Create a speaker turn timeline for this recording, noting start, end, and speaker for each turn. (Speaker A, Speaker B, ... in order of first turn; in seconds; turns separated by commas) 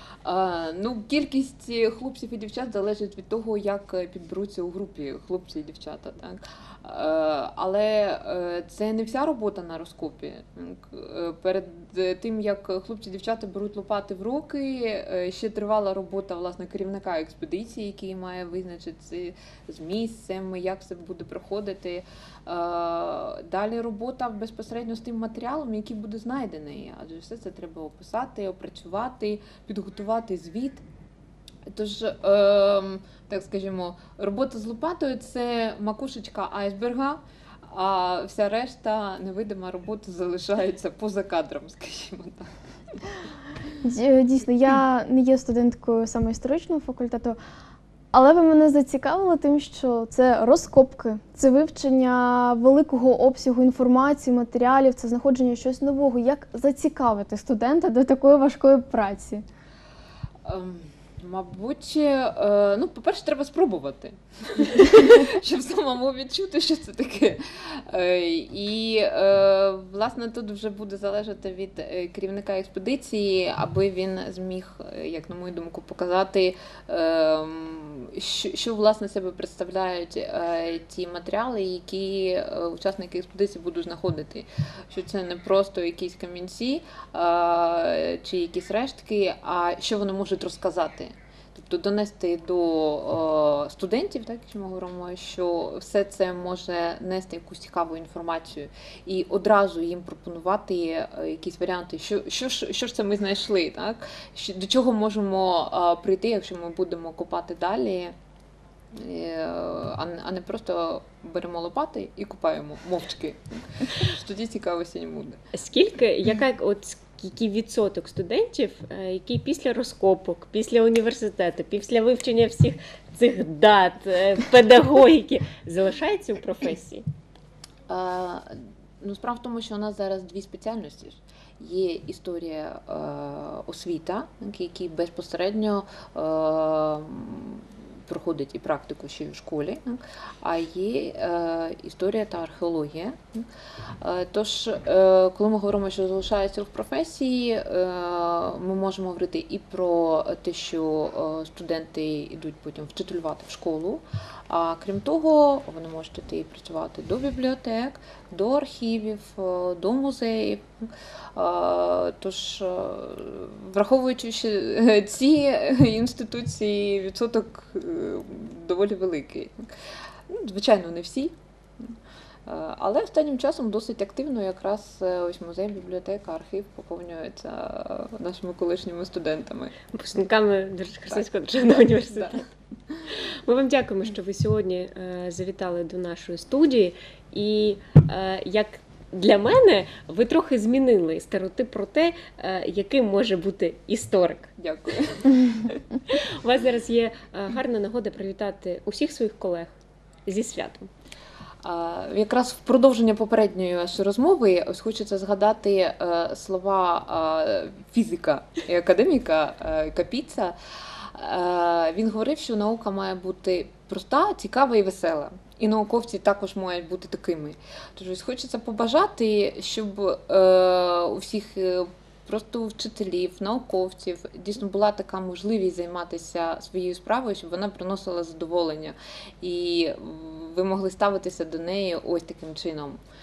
Speaker A: 0.2-30.8, Speaker A: 31.7-43.1, Speaker B: 43.8-47.4, Speaker B: 48.1-59.4, Speaker A: 60.5-108.1, Speaker A: 108.9-115.4, Speaker C: 115.5-127.0, Speaker A: 127.9-128.4, Speaker A: 129.0-143.4, Speaker A: 144.0-169.7, Speaker A: 170.3-171.9, Speaker A: 172.5-179.7, Speaker C: 179.9-182.4, Speaker A: 181.1-182.3, Speaker C: 183.1-194.5, Speaker A: 194.6-195.7, Speaker C: 196.1-199.8, Speaker C: 200.2-200.9, Speaker A: 201.6-233.0